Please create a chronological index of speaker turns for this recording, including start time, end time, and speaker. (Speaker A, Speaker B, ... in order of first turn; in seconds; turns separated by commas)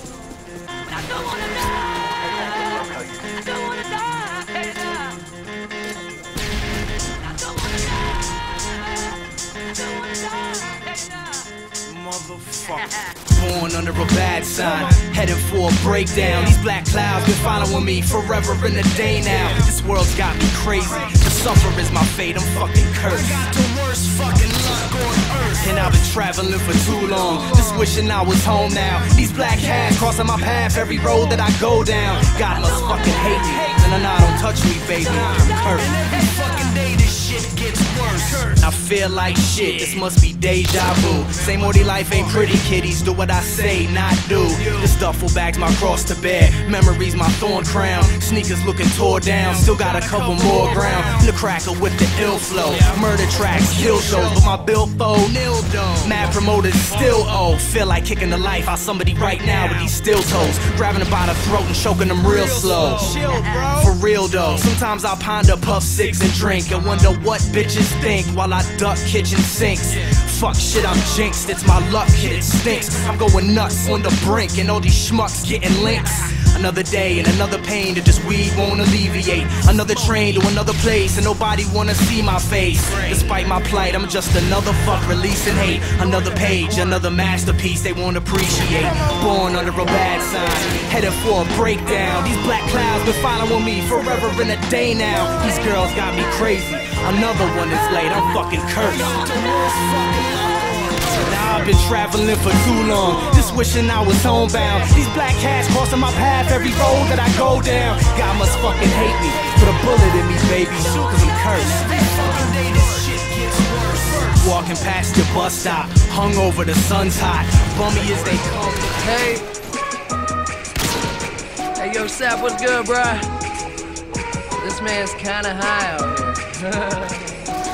Speaker A: 0.9-5.2, Speaker A: 7.2-8.4, Speaker A: 9.7-11.5, Speaker B: 12.0-23.5, Speaker C: 23.3-25.6, Speaker B: 25.6-35.9, Speaker C: 35.9-38.5, Speaker B: 38.4-99.3, Speaker C: 99.0-101.2, Speaker B: 101.2-112.0, Speaker C: 111.8-114.3, Speaker B: 114.2-119.0, Speaker D: 119.0-119.5, Speaker D: 121.8-123.3, Speaker D: 124.6-127.4